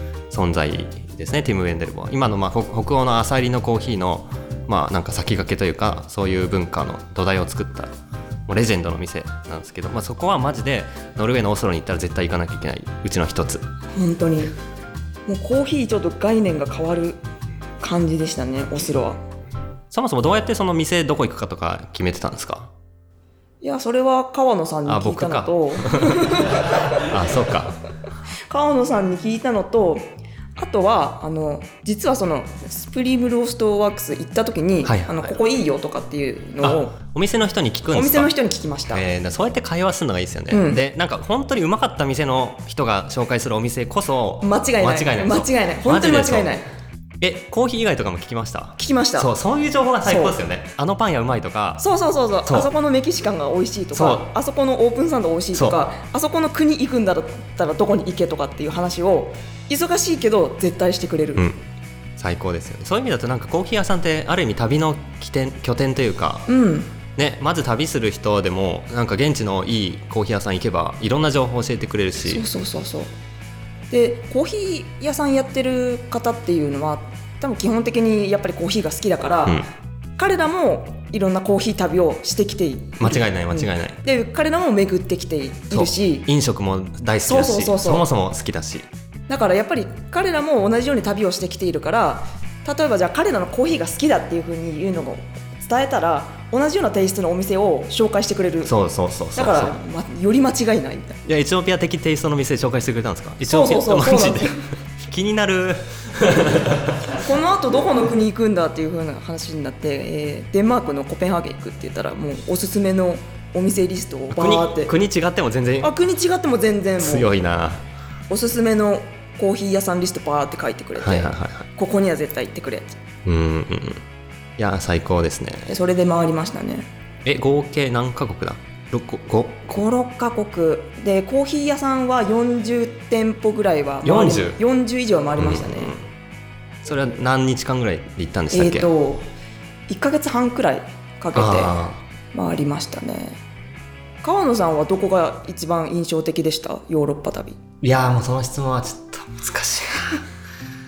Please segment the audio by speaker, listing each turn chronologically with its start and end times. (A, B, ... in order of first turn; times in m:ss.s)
0:00.3-0:07.9 A
0:08.5-0:13.6 A
0:14.0-0:14.5 B
0:15.3-0:17.2 B
0:17.8-0:19.2 B
0:19.9-0:22.7 A
0:23.6-0:26.9 B
0:24.9-0:27.8 A
0:28.5-0:37.0 B
0:34.8-0:35.3 A
0:36.6-0:38.3 A
0:37.9-0:39.0 B
0:38.9-0:46.6 A
0:40.5-0:40.8 B
0:44.4-0:46.7 B
0:47.2-0:51.8 A
0:48.8-0:49.3 B
0:50.0-0:50.4 B
0:51.8-1:01.4 B
0:53.9-0:54.3 A
1:01.4-1:01.6 A
1:02.2-1:06.5 A
1:06.5-1:06.9 B
1:07.2-1:12.4 A
1:12.2-1:13.1 B
1:13.9-1:19.6 B
1:20.2-1:26.3 B
1:23.0-1:24.0 A
1:25.7-1:28.9 A
1:27.3-1:28.0 B
1:29.3-1:38.7 B
1:38.6-1:39.8 A
1:39.4-1:41.2 B
1:41.2-1:47.2 A
1:43.5-1:44.6 B
1:47.1-1:54.9 B
1:54.3-1:55.9 A
1:55.8-1:57.3 B
1:57.0-1:57.8 A
1:58.3-2:03.0 B
2:01.0-2:01.7 A
2:03.2-2:04.0 A
2:04.6-2:05.7 A
2:05.7-2:06.9 B
2:07.2-2:09.8 A
2:09.7-2:15.9 B
2:14.0-2:14.6 A
2:15.4-2:16.0 A
2:16.8-2:18.9 A
2:18.5-2:19.3 B
2:19.9-2:21.7 B
2:21.3-2:22.0 A
2:22.3-2:23.4 B
2:24.2-2:27.6 B
2:27.8-2:30.2 A